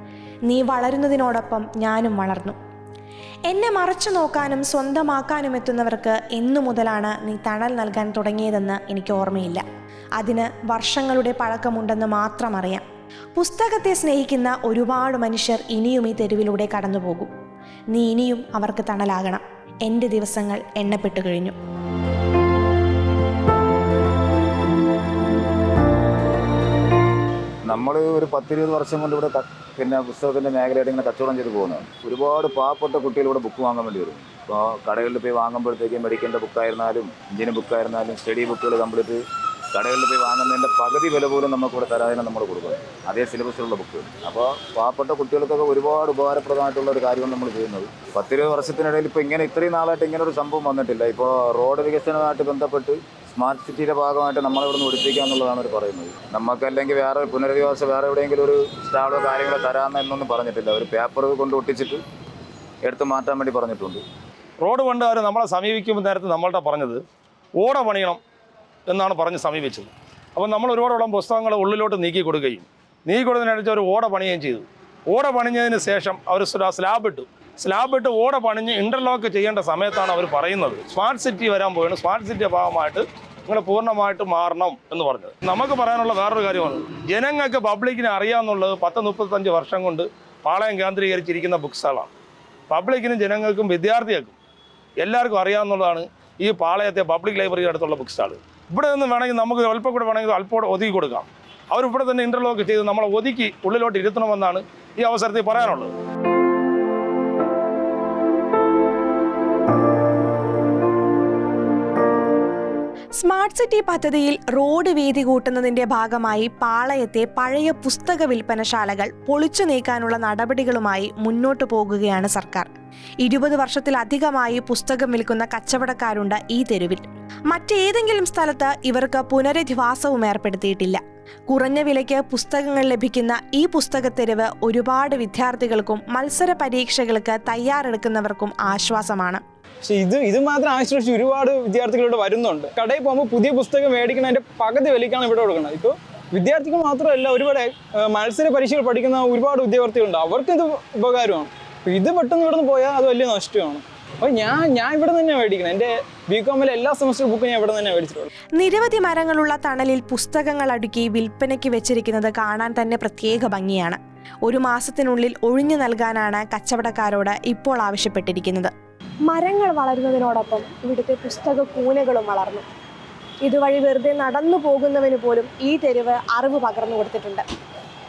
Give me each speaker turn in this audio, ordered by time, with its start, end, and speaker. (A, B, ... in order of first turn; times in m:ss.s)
0:00.5-0:02.6 A
0:03.5-0:09.6 A
0:10.2-0:12.8 A
0:13.4-0:17.3 A
0:17.9-0:21.6 A
0:27.7-0:39.2 B
0:39.7-1:02.0 B
1:02.8-1:04.0 B
1:04.6-1:07.0 C
1:07.6-1:08.2 C
1:08.9-1:32.1 C
1:32.7-1:34.4 C
1:35.0-1:45.9 C
1:53.2-2:02.7 A
2:03.2-2:19.4 A
2:19.8-2:38.3 D
2:38.6-2:48.7 A
2:49.3-2:52.6 E
2:53.4-2:57.4 E